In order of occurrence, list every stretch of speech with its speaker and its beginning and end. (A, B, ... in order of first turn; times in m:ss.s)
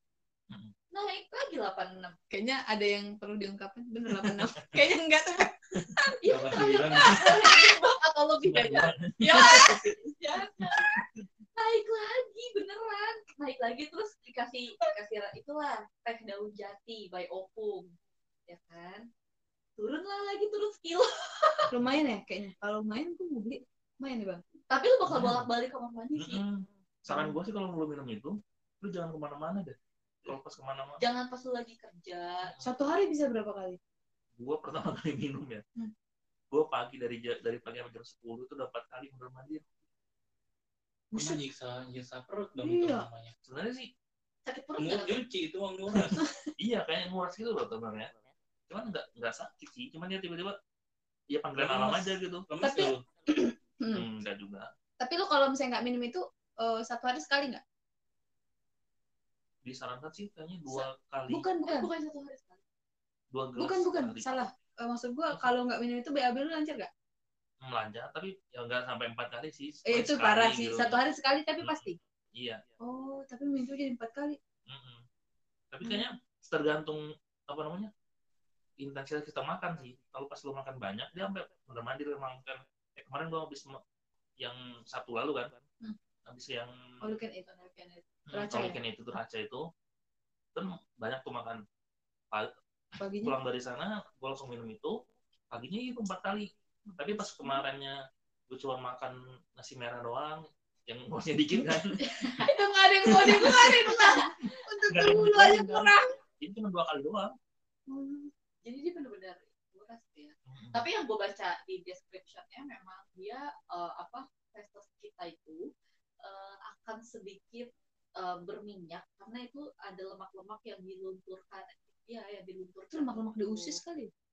0:00.9-0:02.2 A
0:02.3-0:06.2 B
0:04.1-0:04.8 C
0:06.2-0:10.9 A
0:06.3-0:07.4 D
0:07.2-0:07.5 B
0:08.4-0:09.8 C
0:11.6-0:17.9 A
0:18.5-0:19.0 A
0:19.8-0:21.7 A
0:21.7-0:24.4 B
0:24.7-0:26.4 A
0:25.1-0:25.5 C
0:26.1-0:31.0 C
0:27.1-0:27.4 B
0:31.0-0:32.5 A
0:32.5-0:32.7 C
0:32.6-0:33.8 B
0:34.4-0:35.6 C
0:36.5-0:39.6 C
0:41.1-0:41.4 B
0:41.1-0:43.3 D
0:42.6-0:43.1 B
0:43.4-0:43.9 C
0:44.4-0:45.2 A
0:44.8-0:46.2 D
0:46.6-0:48.1 C
0:48.7-0:50.6 C
0:51.3-0:52.5 C
0:51.6-0:53.0 D
0:52.6-0:54.0 B
0:53.9-0:54.7 C
0:55.0-0:57.6 B
0:59.6-1:01.5 C
1:01.3-1:01.9 B
1:01.6-1:02.6 A
1:03.3-1:04.5 C
1:03.6-1:06.9 B
1:07.6-1:11.0 C
1:09.8-1:11.9 B
1:11.6-1:12.6 C
1:12.8-1:14.4 B
1:14.7-1:15.0 C
1:15.7-1:17.9 C
1:18.8-1:23.8 C
1:24.4-1:25.6 C
1:26.3-1:26.7 C
1:27.0-1:27.7 B
1:27.5-1:28.0 A
1:28.3-1:29.6 C
1:28.3-1:28.8 B
1:30.5-1:31.6 C
1:33.0-1:33.4 B
1:33.2-1:34.9 C
1:35.5-1:38.0 C
1:36.9-1:37.6 B
1:38.5-1:42.0 C
1:42.2-1:42.5 A
1:42.4-1:46.1 B
1:43.1-1:43.7 C
1:43.1-1:44.5 A
1:44.9-1:47.3 C
1:47.9-1:48.3 B
1:48.6-1:55.6 A
1:50.5-1:50.8 C
1:56.2-2:03.8 A
2:02.9-2:04.1 B